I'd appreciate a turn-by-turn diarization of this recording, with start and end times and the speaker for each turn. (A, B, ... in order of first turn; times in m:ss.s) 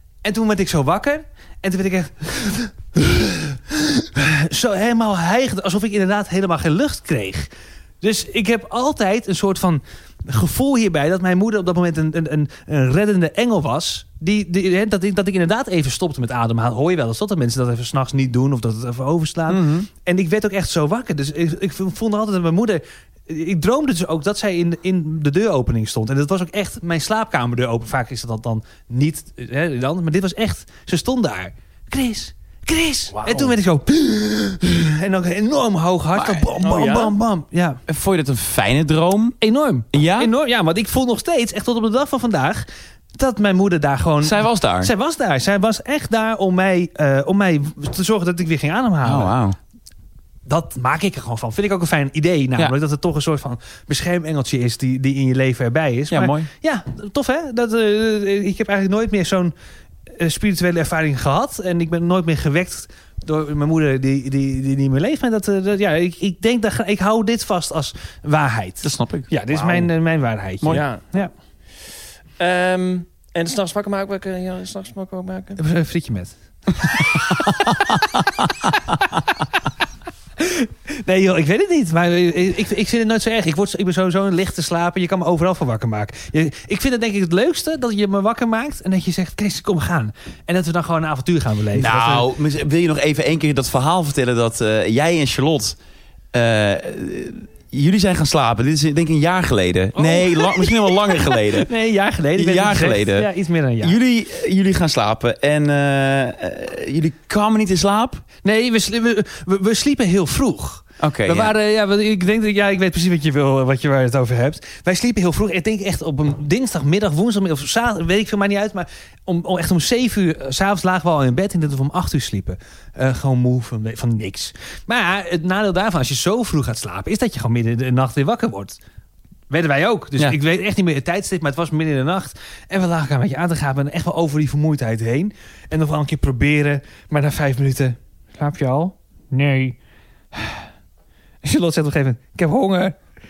0:00.2-0:07.5 A
0:08.0-0:37.8 A
0:19.5-0:19.9 B
0:33.1-0:33.6 C
0:36.2-0:36.6 B
0:36.6-0:37.1 C
0:37.9-0:39.4 B
0:39.4-0:42.6 A
0:39.9-0:40.3 B
0:43.2-0:49.3 A
0:44.2-0:44.9 B
0:49.0-0:49.6 B
0:50.5-0:59.5 A
0:56.1-0:56.5 B
1:00.2-1:11.3 A
1:08.8-1:09.3 B
1:09.6-1:09.8 C
1:10.7-1:11.1 C
1:12.4-1:15.6 C
1:15.6-1:16.3 A
1:17.7-1:18.2 B
1:20.4-1:32.3 A
1:31.8-1:35.8 B
1:36.3-1:41.7 B
1:40.0-1:44.0 A
1:42.4-1:43.3 B
1:43.8-1:48.2 B
1:48.4-2:08.8 A
1:51.0-1:51.5 B
2:09.5-2:19.8 A
2:20.3-2:20.6 A
2:21.4-2:23.0 A